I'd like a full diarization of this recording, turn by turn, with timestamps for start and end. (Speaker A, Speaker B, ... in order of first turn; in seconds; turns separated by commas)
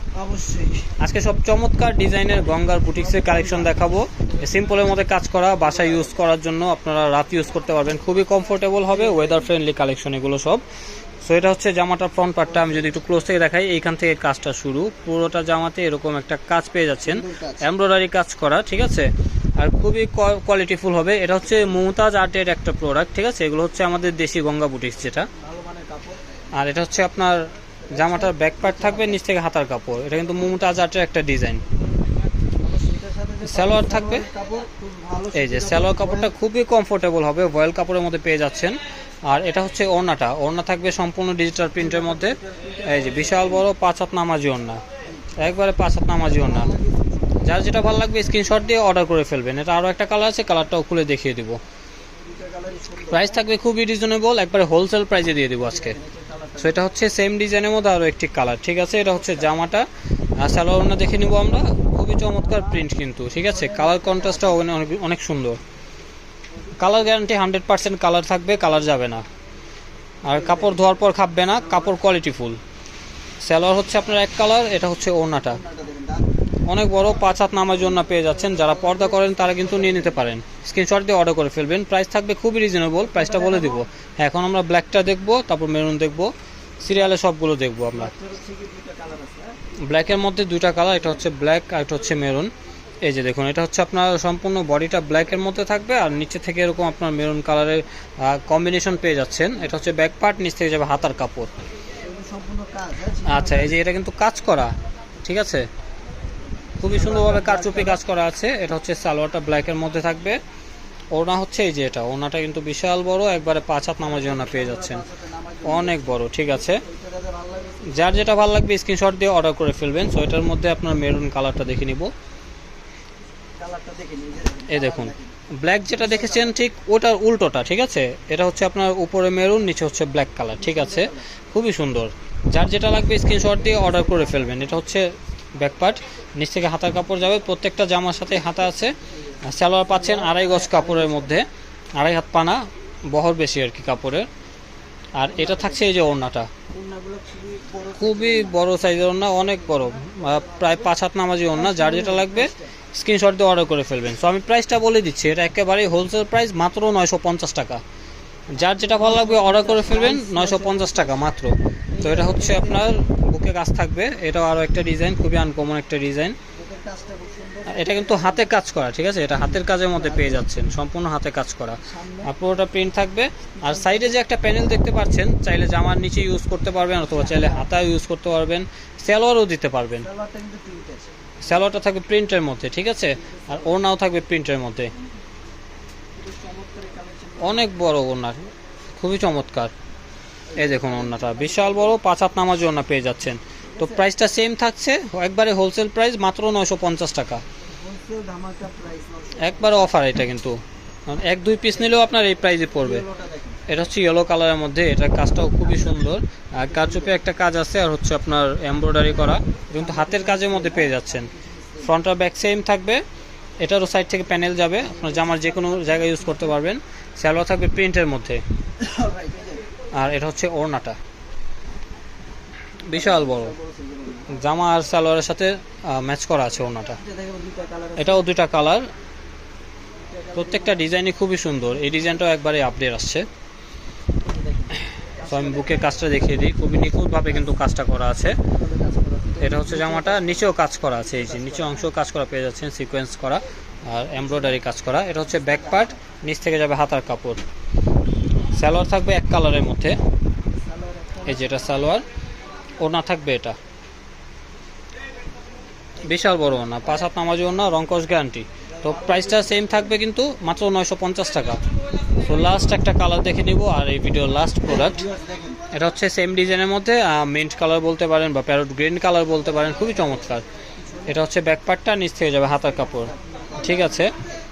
Speaker A: 0.1-1.0, Speaker B: 1.0-10.6, Speaker A: 2.9-4.8, Speaker A: 5.7-6.1, Speaker A: 8.9-9.5, Speaker B: 11.2-25.3, Speaker A: 12.6-12.9, Speaker A: 17.1-17.6, Speaker A: 25.3-26.3, Speaker B: 26.5-31.6, Speaker A: 27.9-29.2, Speaker A: 32.6-36.3, Speaker B: 33.4-34.3, Speaker B: 35.3-44.8, Speaker A: 41.8-43.7, Speaker A: 45.1-45.3, Speaker B: 45.4-46.7, Speaker A: 46.3-47.5, Speaker B: 47.4-51.6, Speaker A: 52.2-53.4, Speaker B: 53.1-56.0, Speaker A: 55.6-56.9, Speaker B: 56.6-59.9, Speaker B: 60.4-65.6, Speaker A: 62.5-62.8, Speaker A: 63.5-64.7, Speaker B: 66.8-69.2, Speaker B: 70.2-72.6, Speaker A: 70.3-72.0, Speaker B: 73.4-75.6, Speaker A: 75.4-76.3, Speaker B: 76.7-88.1, Speaker A: 77.9-80.2, Speaker A: 83.1-83.9, Speaker A: 87.9-89.6, Speaker B: 89.9-92.5, Speaker B: 93.0-101.6, Speaker A: 102.0-103.8, Speaker B: 103.2-105.7, Speaker B: 106.8-110.4, Speaker A: 106.8-108.0, Speaker B: 111.1-115.0, Speaker A: 114.0-116.0, Speaker B: 115.6-116.8, Speaker A: 116.6-118.4, Speaker B: 117.9-122.1, Speaker A: 123.6-125.3, Speaker B: 124.7-144.3, Speaker A: 126.0-126.5, Speaker A: 130.6-131.2, Speaker A: 133.2-134.7, Speaker A: 139.6-141.4, Speaker B: 145.2-146.5, Speaker A: 145.3-145.9, Speaker A: 146.7-148.6, Speaker B: 148.0-157.8, Speaker A: 149.3-150.9, Speaker A: 151.5-152.7, Speaker B: 158.5-166.4, Speaker A: 158.6-161.3, Speaker A: 161.9-163.0, Speaker A: 166.5-168.6, Speaker B: 167.7-180.1, Speaker A: 169.9-170.4, Speaker A: 171.8-172.3, Speaker A: 173.6-174.2, Speaker A: 177.2-177.7, Speaker A: 180.0-181.1, Speaker B: 181.4-184.9, Speaker A: 183.2-183.8, Speaker A: 186.2-187.7, Speaker B: 187.4-188.4, Speaker B: 189.0-189.7, Speaker A: 190.5-192.0, Speaker B: 190.6-197.4, Speaker A: 193.8-194.1, Speaker A: 197.8-200.0, Speaker B: 199.4-203.0, Speaker A: 202.8-203.6, Speaker B: 203.7-213.0, Speaker A: 206.7-207.2, Speaker A: 209.8-211.9, Speaker B: 213.6-218.4, Speaker A: 214.8-216.6, Speaker A: 218.8-219.7, Speaker B: 219.9-221.0, Speaker B: 222.8-223.6, Speaker A: 222.9-224.3, Speaker B: 224.3-227.0, Speaker A: 227.0-228.3, Speaker B: 228.0-228.9, Speaker A: 230.1-230.8, Speaker B: 230.3-233.3, Speaker A: 234.2-236.0, Speaker B: 235.2-238.4, Speaker A: 238.5-240.5, Speaker B: 239.4-247.4, Speaker A: 241.1-241.9, Speaker A: 245.3-246.0, Speaker B: 248.6-250.0, Speaker A: 250.5-251.8, Speaker B: 251.3-252.0, Speaker B: 252.8-253.6, Speaker B: 256.0-261.6, Speaker A: 256.1-257.1, Speaker A: 258.7-259.9, Speaker B: 262.2-265.1, Speaker A: 264.7-265.6, Speaker B: 265.7-270.4, Speaker A: 270.8-271.2, Speaker B: 271.1-274.1, Speaker A: 272.7-274.1